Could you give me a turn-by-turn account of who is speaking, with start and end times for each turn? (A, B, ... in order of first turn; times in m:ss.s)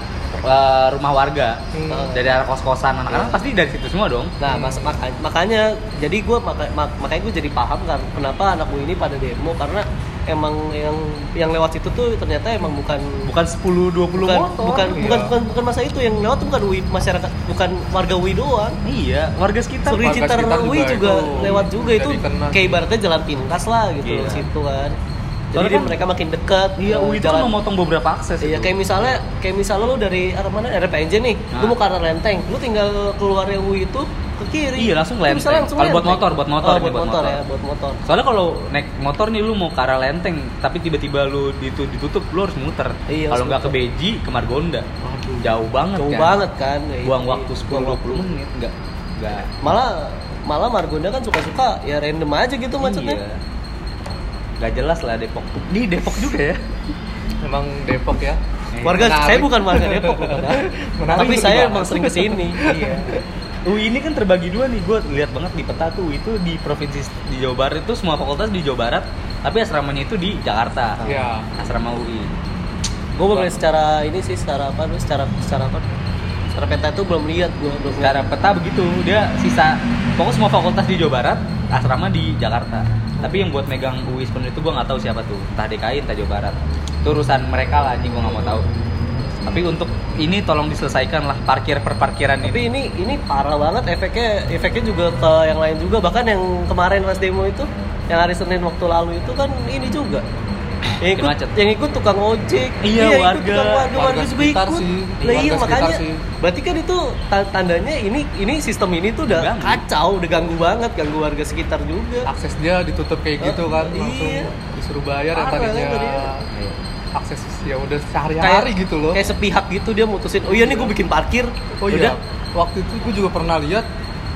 0:00.4-0:04.3 A
0:01.7-0:02.1 B
0:01.9-0:02.2 C
0:03.1-0:03.4 C
0:04.4-0:13.2 C
0:04.5-0:04.9 B
0:13.2-0:15.2 A
0:14.1-0:18.8 C
0:14.9-0:15.3 B
0:18.8-0:20.2 A
0:19.9-0:25.0 C
0:20.0-0:22.8 B
0:24.0-0:24.4 A
0:25.5-0:27.5 C
0:25.5-0:26.0 A
0:26.8-0:29.2 A
0:28.4-0:38.0 C
0:34.8-0:37.4 A
0:38.0-0:44.9 A
0:43.1-0:43.7 C
0:45.0-0:48.3 C
0:45.4-0:46.4 A
0:47.0-0:49.5 A
0:49.6-0:53.2 C
0:52.8-0:53.4 A
0:54.6-0:56.6 A
0:57.4-0:58.4 B
0:58.7-0:59.2 A
0:58.8-1:02.6 C
0:58.9-1:01.8 B
1:01.1-1:12.3 A
1:02.6-1:03.2 B
1:11.0-1:11.5 B
1:13.2-1:16.0 C
1:16.5-1:18.2 C
1:18.0-1:28.6 A
1:23.2-1:23.4 C
1:29.4-1:32.6 A
1:32.4-1:40.2 C
1:41.0-1:52.3 C
1:41.1-1:41.5 A
1:42.8-1:44.0 A
1:43.9-1:46.2 B
1:49.3-1:49.8 A
1:52.2-1:56.4 B
1:53.4-1:54.5 C
1:55.3-1:56.3 C
1:57.1-1:59.2 B
1:58.4-2:01.5 C
2:00.5-2:00.9 B
2:01.8-2:03.9 B
2:01.9-2:02.2 A